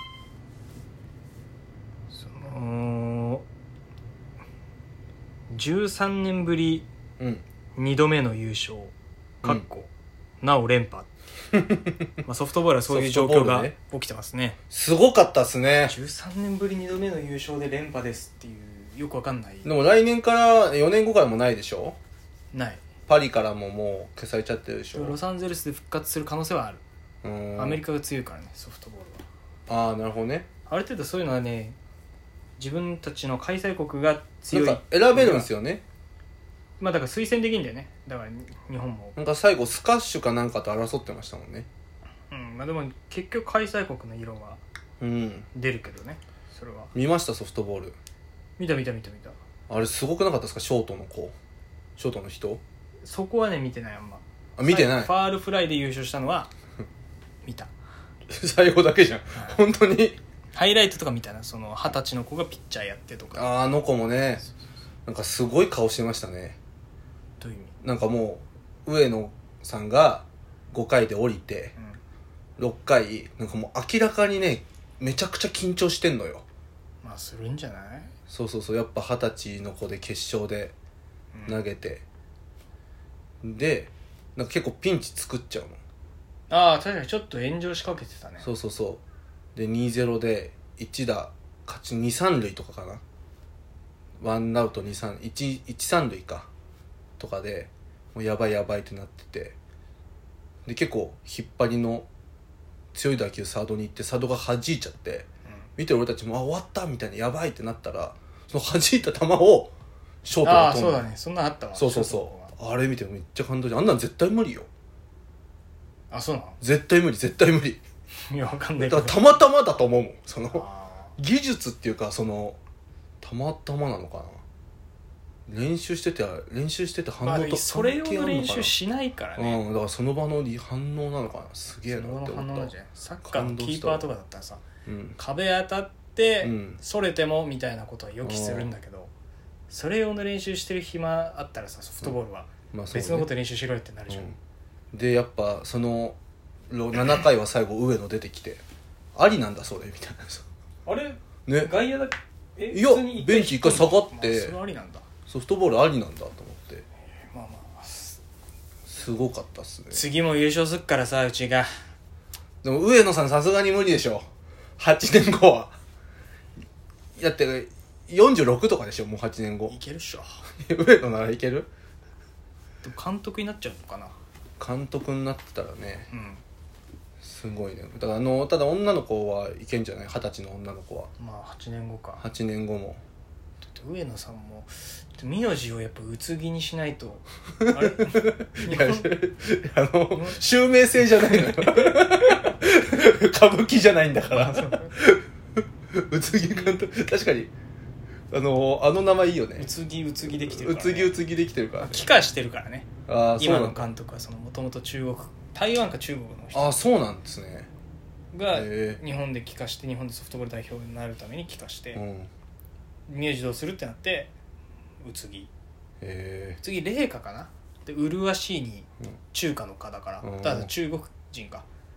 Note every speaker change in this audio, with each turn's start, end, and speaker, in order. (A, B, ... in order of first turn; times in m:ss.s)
0:02.1-0:03.5 A
0:05.5-0:06.9 A
0:07.2-0:07.4 B
0:07.8-0:09.9 A
0:10.4-0:11.1 A
0:11.5-0:12.1 B
0:12.2-0:14.6 A
0:12.9-0:13.8 B
0:14.7-0:16.0 B
0:15.9-0:19.7 A
0:19.6-0:22.0 B
0:22.5-0:22.8 A
0:23.1-0:25.2 B
0:24.9-0:26.8 A
0:27.2-0:27.8 B
0:27.6-0:29.2 A
0:29.7-0:30.5 B
0:30.7-0:31.8 A
0:32.6-0:35.5 A
0:34.5-0:35.8 B
0:36.8-0:39.2 A
0:39.2-0:41.7 B
0:42.3-0:44.6 A
0:45.0-0:45.5 B
0:45.6-0:46.9 A
0:46.9-0:48.0 B
0:48.6-0:49.4 A
0:49.7-0:51.4 B
0:52.0-0:52.6 B
0:53.0-0:56.5 A
0:54.6-0:55.1 B
0:57.4-0:57.7 A
0:58.3-1:00.2 B
1:00.5-1:03.5 A
1:03.3-1:04.4 B
1:05.1-1:06.6 B
1:07.4-1:07.8 A
1:07.8-1:11.8 B
1:12.6-1:16.4 B
1:17.0-1:18.1 A
1:18.3-1:20.7 B
1:21.3-1:21.6 A
1:21.5-1:22.0 B
1:23.4-1:25.8 B
1:26.5-1:28.5 A
1:28.4-1:29.0 B
1:29.6-1:33.0 B
1:34.2-1:36.5 B
1:37.2-1:39.6 B
1:40.7-1:42.1 B
1:42.9-1:49.7 B
1:50.2-1:51.0 B
1:50.4-1:52.5 A
1:51.8-1:54.7 B
1:56.1-1:56.6 A
1:56.6-1:57.8 B
1:58.3-1:59.4 A
1:58.8-2:00.6 B
2:00.5-2:01.1 A
2:01.2-2:02.6 B
2:03.2-2:04.4 B
2:05.5-2:08.7 B
2:07.2-2:09.6 A
2:09.4-2:12.7 B
2:11.9-2:14.6 A
2:13.2-2:14.1 B
2:14.9-2:15.2 B
2:15.2-2:19.1 A
2:16.4-2:16.8 B
2:18.2-2:18.7 B
2:19.7-2:24.3 A
2:22.7-2:23.3 B
2:24.1-2:24.4 B
2:24.9-2:26.2 B
2:26.7-2:28.6 B
2:29.2-2:30.5 B
2:30.9-2:35.1 A
2:31.5-2:31.8 B
2:32.7-2:34.6 B
2:35.3-2:36.9 B
2:37.3-2:38.2 A
2:38.9-2:40.0 B
2:39.9-2:41.7 A
2:42.6-2:44.3 B
2:44.8-2:45.8 B
2:47.2-2:49.8 B
2:49.7-2:50.4 A
2:50.6-2:51.7 B
2:52.8-2:54.2 A
2:54.6-2:56.1 B
2:56.1-2:56.4 A
2:57.2-3:01.1 B
3:01.2-3:02.2 A
3:02.2-3:03.0 B
3:03.6-3:09.1 A
3:07.6-3:15.3 B
3:10.1-3:10.4 A
3:11.2-3:11.7 A
3:14.3-3:14.9 A
3:15.9-3:17.5 B
3:18.3-3:19.7 B
3:19.6-3:21.2 A
3:20.3-3:22.1 B
3:21.8-3:26.8 A
3:23.1-3:23.9 B
3:26.5-3:27.7 B
3:28.3-3:32.0 A
3:28.5-3:29.0 B
3:31.9-3:32.3 B
3:33.1-3:34.3 A
3:35.0-3:35.5 A
3:36.0-3:36.6 B
3:36.6-3:41.7 A
3:40.2-3:40.7 B